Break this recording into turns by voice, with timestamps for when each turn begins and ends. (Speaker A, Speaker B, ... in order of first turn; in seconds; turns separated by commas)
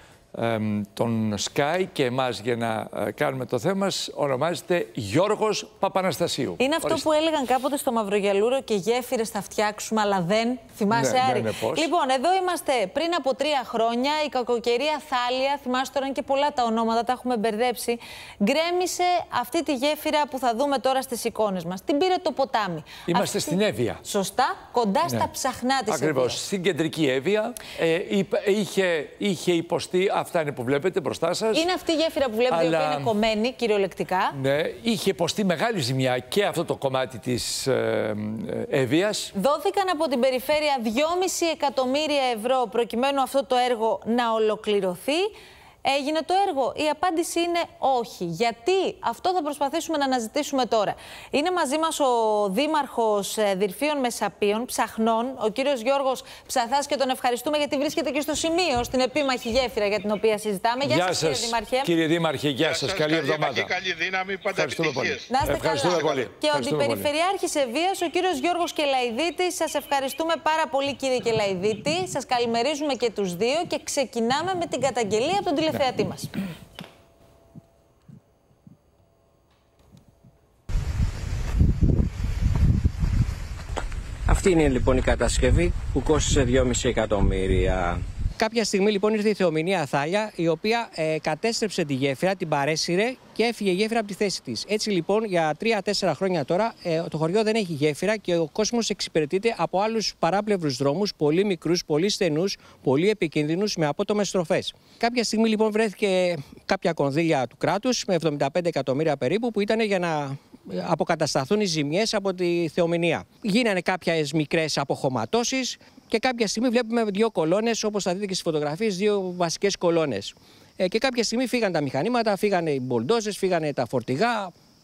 Speaker A: 0.3-7.0, Speaker B: 6.6-26.4, Speaker A: 10.9-11.9, Speaker A: 23.1-24.0, Speaker A: 25.9-31.7, Speaker B: 31.5-34.4, Speaker A: 32.5-33.1, Speaker A: 34.3-39.3, Speaker B: 39.3-45.3, Speaker B: 45.8-61.9, Speaker A: 60.8-63.7, Speaker C: 62.7-65.2, Speaker A: 64.5-67.1, Speaker B: 65.3-76.3, Speaker D: 84.3-124.5